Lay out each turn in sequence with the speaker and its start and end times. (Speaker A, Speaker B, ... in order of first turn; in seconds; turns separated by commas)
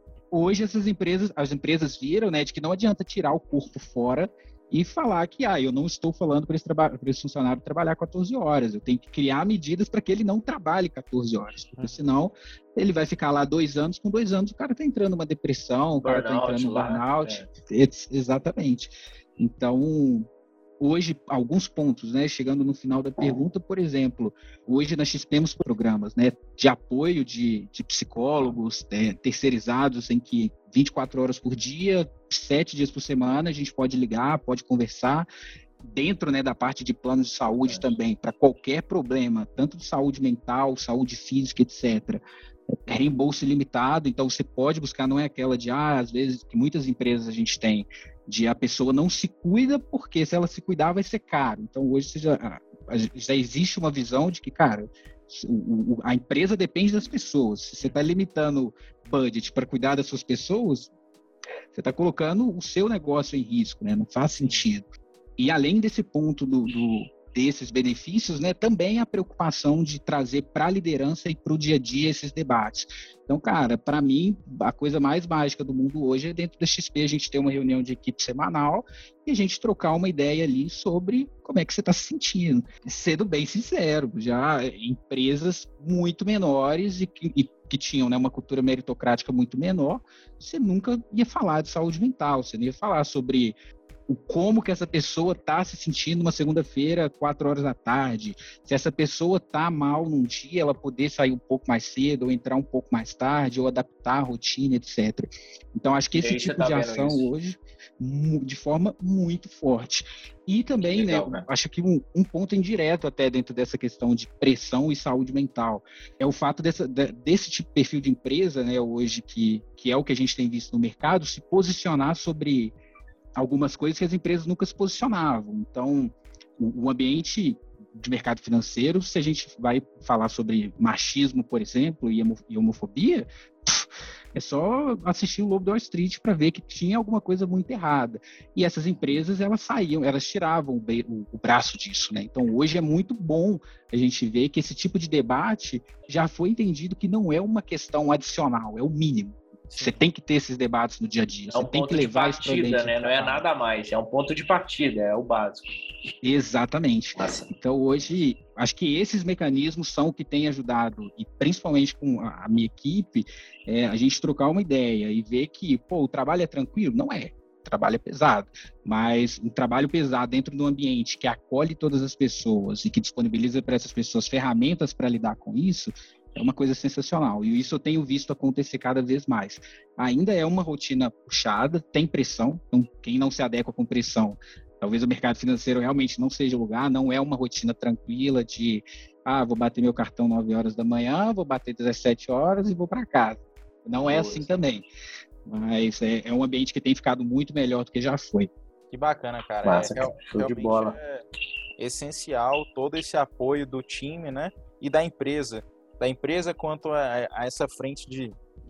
Speaker A: 0.3-20.3, Speaker B: 16.0-17.5, Speaker A: 20.8-35.3, Speaker A: 35.8-42.2, Speaker A: 42.9-60.9, Speaker A: 61.7-64.9, Speaker A: 65.4-93.6, Speaker A: 94.1-122.8, Speaker B: 106.2-107.3, Speaker B: 110.8-111.5, Speaker A: 123.4-153.5, Speaker B: 149.7-150.0, Speaker B: 151.5-155.7, Speaker A: 156.2-194.9, Speaker B: 157.2-157.5, Speaker B: 194.0-194.5, Speaker A: 195.4-198.5, Speaker C: 198.9-201.2, Speaker B: 199.6-201.0, Speaker C: 201.8-208.4